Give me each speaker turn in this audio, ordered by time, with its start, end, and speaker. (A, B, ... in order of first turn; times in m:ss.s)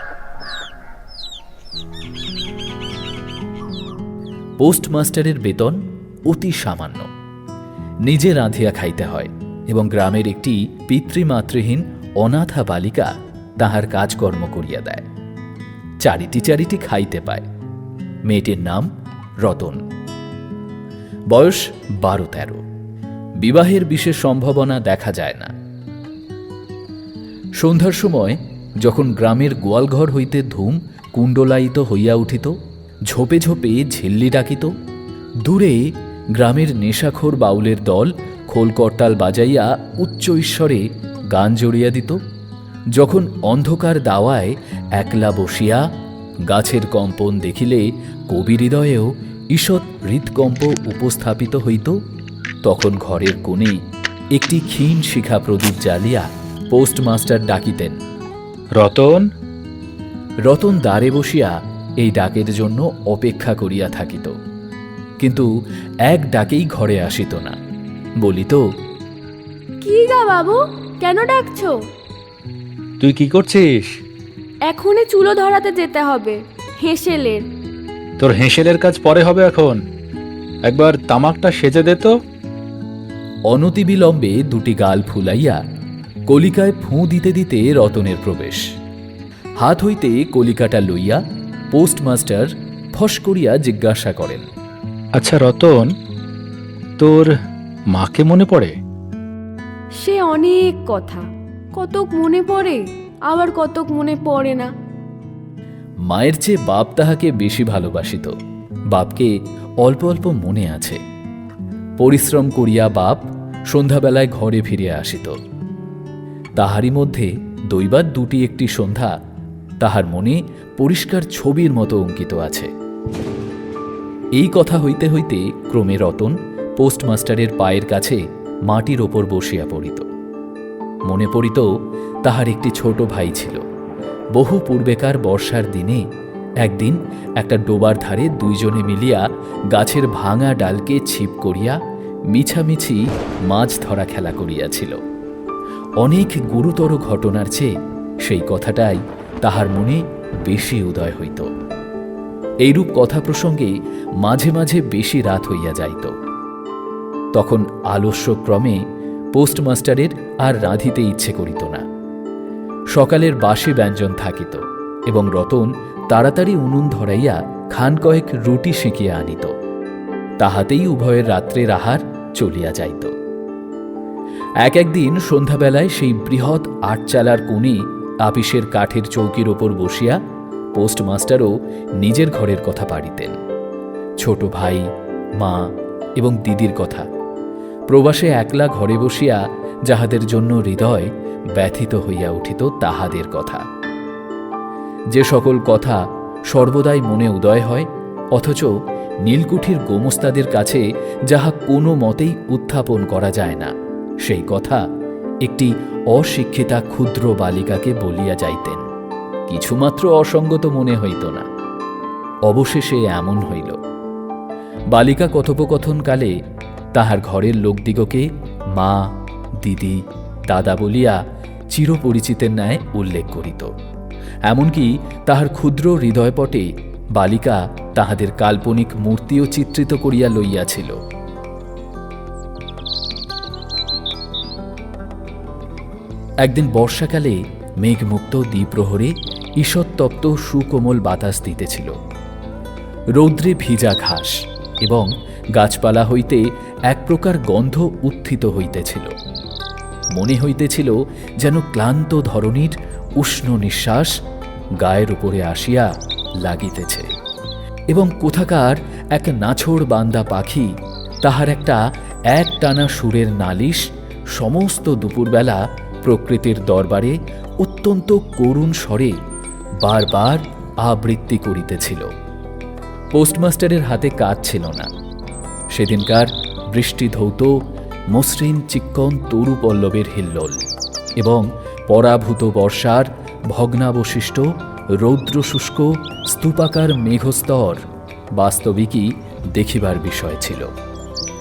0:04.6-0:07.1 A
0:08.0-0:15.0 A
0:16.0-0:17.4 A
0:18.3-0:18.9 A
0:19.4-0:19.8 A
0:21.3-0:22.6 A
0:23.4-0:25.5 A
0:27.6-0:32.6 A
0:33.1-0:34.7 A
0:35.4-0:42.2 A
0:42.9-0:45.9 A
0:46.4-0:52.0 A
0:52.6-0:53.8 A
0:54.3-0:58.0 A
0:58.8-0:59.3 B
1:00.4-1:04.4 A
1:05.2-1:05.5 A
1:06.0-1:07.6 A
1:08.2-1:08.6 A
1:09.8-1:11.8 C
1:13.0-1:14.0 B
1:14.6-1:17.4 C
1:18.2-1:19.8 B
1:20.6-1:22.2 B
1:23.5-1:25.6 A
1:26.3-1:28.6 A
1:29.6-1:31.2 A
1:31.7-1:34.5 A
1:35.2-1:35.9 B
1:37.0-1:37.3 B
1:37.9-1:38.8 B
1:40.0-1:44.7 C
1:46.0-1:48.3 A
1:48.9-1:51.0 A
1:52.0-1:55.4 A
1:56.6-1:59.2 A
1:59.8-2:02.7 A
2:04.4-2:10.1 A
2:11.0-2:11.7 A
2:12.2-2:13.6 A
2:14.3-2:16.0 A
2:16.6-2:21.8 A
2:22.3-2:25.0 A
2:26.0-2:27.7 A
2:28.2-2:31.5 A
2:32.6-2:36.1 A
2:37.3-2:38.8 A
2:39.3-2:41.8 A
2:42.9-2:49.5 A
2:50.4-2:53.1 A
2:54.6-3:00.2 A
3:00.7-3:03.4 A
3:04.2-3:04.9 A
3:05.4-3:07.1 A
3:07.9-3:13.6 A
3:15.1-3:18.7 A
3:19.2-3:23.7 A
3:24.2-3:24.8 A
3:25.4-3:28.8 A
3:29.5-3:31.4 A
3:32.5-3:33.8 A
3:34.9-3:36.3 A
3:36.9-3:41.2 A
3:41.7-3:43.7 A
3:44.5-3:51.0 A
3:56.4-4:02.0 A
4:03.1-4:09.1 A
4:10.1-4:14.2 A
4:14.8-4:15.9 A
4:16.4-4:17.1 A
4:17.9-4:20.7 A
4:21.2-4:29.2 A
4:29.8-4:32.1 A
4:33.1-4:34.9 A
4:35.7-4:37.6 A
4:38.1-4:40.6 A
4:41.2-4:44.5 A
4:45.0-4:47.8 A
4:48.4-4:50.7 A